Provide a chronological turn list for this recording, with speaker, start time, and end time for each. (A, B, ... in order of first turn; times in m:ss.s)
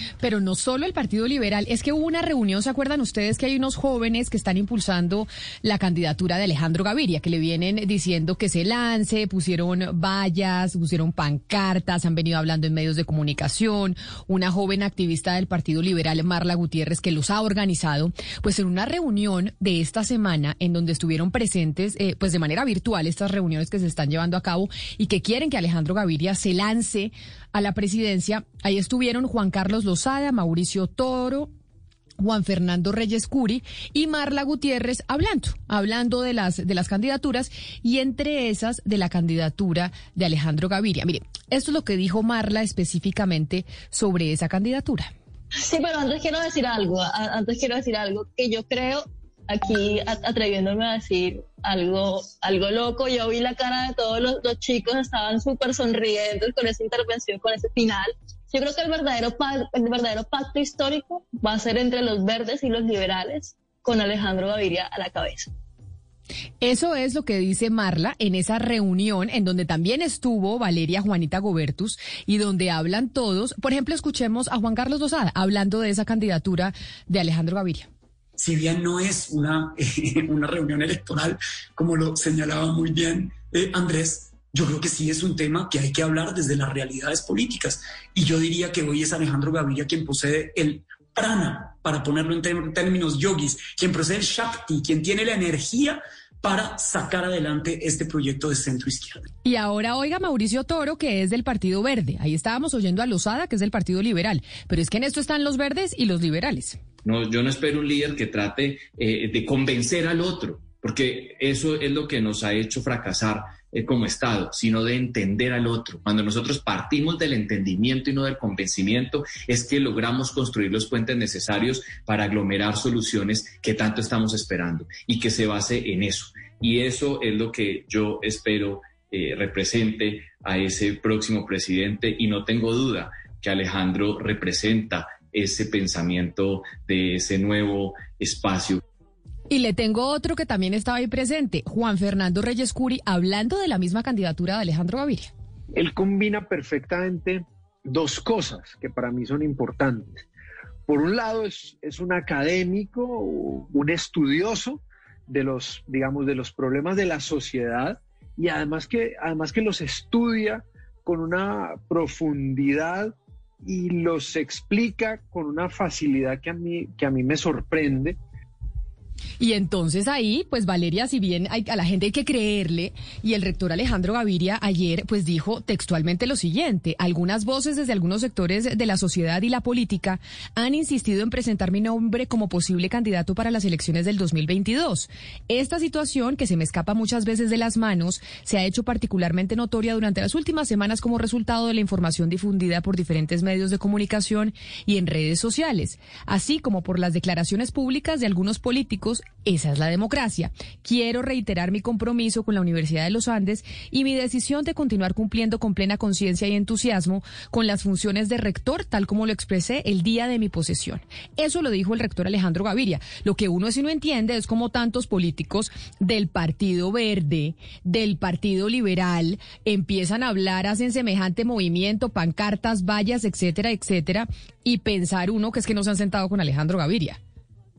0:00.2-0:31.5 A
0:32.2-0:45.1 A
0:45.6-1:05.5 B
1:06.6-1:17.9 A
1:18.4-1:39.3 C
1:39.4-1:46.8 A
1:47.0-2:18.8 D
2:19.5-2:25.3 A
2:25.7-2:30.2 E
2:30.9-2:48.2 E
2:49.4-3:47.2 A